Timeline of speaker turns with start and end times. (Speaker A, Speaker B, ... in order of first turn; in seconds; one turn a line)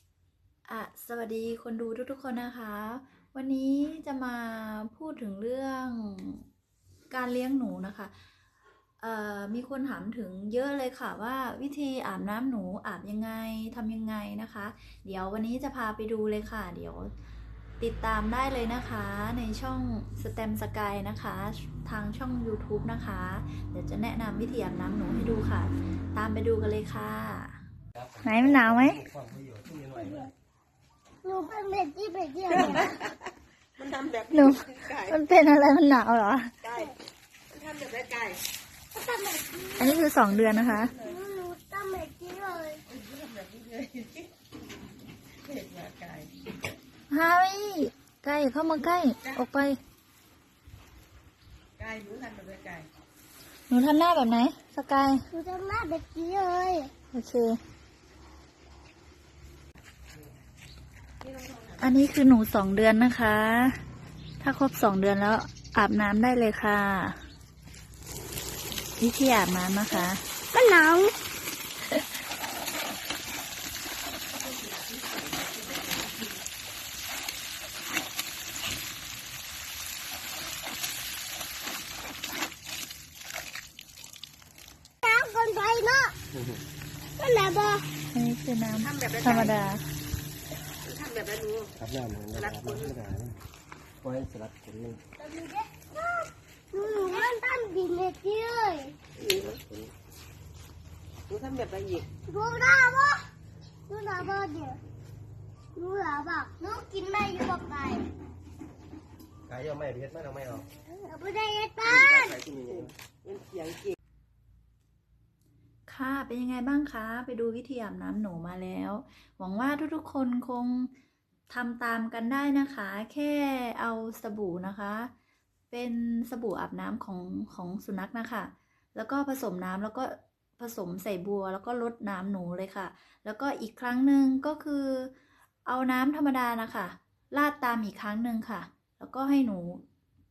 Speaker A: 0.7-6.4
Speaker A: 7.1-8.1
Speaker A: 9.0-17.1
Speaker A: 17.8-27.6
Speaker B: 28.0-30.3
Speaker A: 28.2-29.0
Speaker C: 30.0-30.3
Speaker C: 31.2-32.9
Speaker D: 32.5-33.2
Speaker D: 33.8-35.2
Speaker A: 34.3-36.6
Speaker D: 36.6-37.0
Speaker D: 37.5-38.4
Speaker C: 38.9-40.1
Speaker A: 39.8-40.9
Speaker D: 40.3-41.2
Speaker C: 41.0-42.8
Speaker D: 42.9-44.3
Speaker D: 45.4-46.3
Speaker A: 47.1-49.8
Speaker D: 51.8-52.9
Speaker A: 53.7-55.3
Speaker C: 55.3-56.9
Speaker A: 57.1-57.6
Speaker D: 61.2-61.8
Speaker A: 61.8-63.8
Speaker A: 64.4-67.2
Speaker A: 69.0-70.2
Speaker C: 69.9-71.2
Speaker C: 85.0-86.2
Speaker B: 86.3-86.6
Speaker C: 87.2-87.9
Speaker A: 88.1-89.8
Speaker D: 88.8-89.6
Speaker D: 90.8-91.7
Speaker B: 91.8-93.4
Speaker D: 92.3-93.0
Speaker B: 94.0-95.0
Speaker C: 95.2-99.0
Speaker D: 99.2-99.7
Speaker D: 101.3-102.1
Speaker C: 102.2-103.3
Speaker C: 103.9-104.8
Speaker C: 105.8-108.1
Speaker B: 109.5-110.7
Speaker C: 110.7-112.3
Speaker D: 111.9-114.0
Speaker B: 112.2-112.9
Speaker A: 115.9-120.9
Speaker A: 121.5-125.1
Speaker A: 125.7-135.1
Speaker A: 135.7-139.8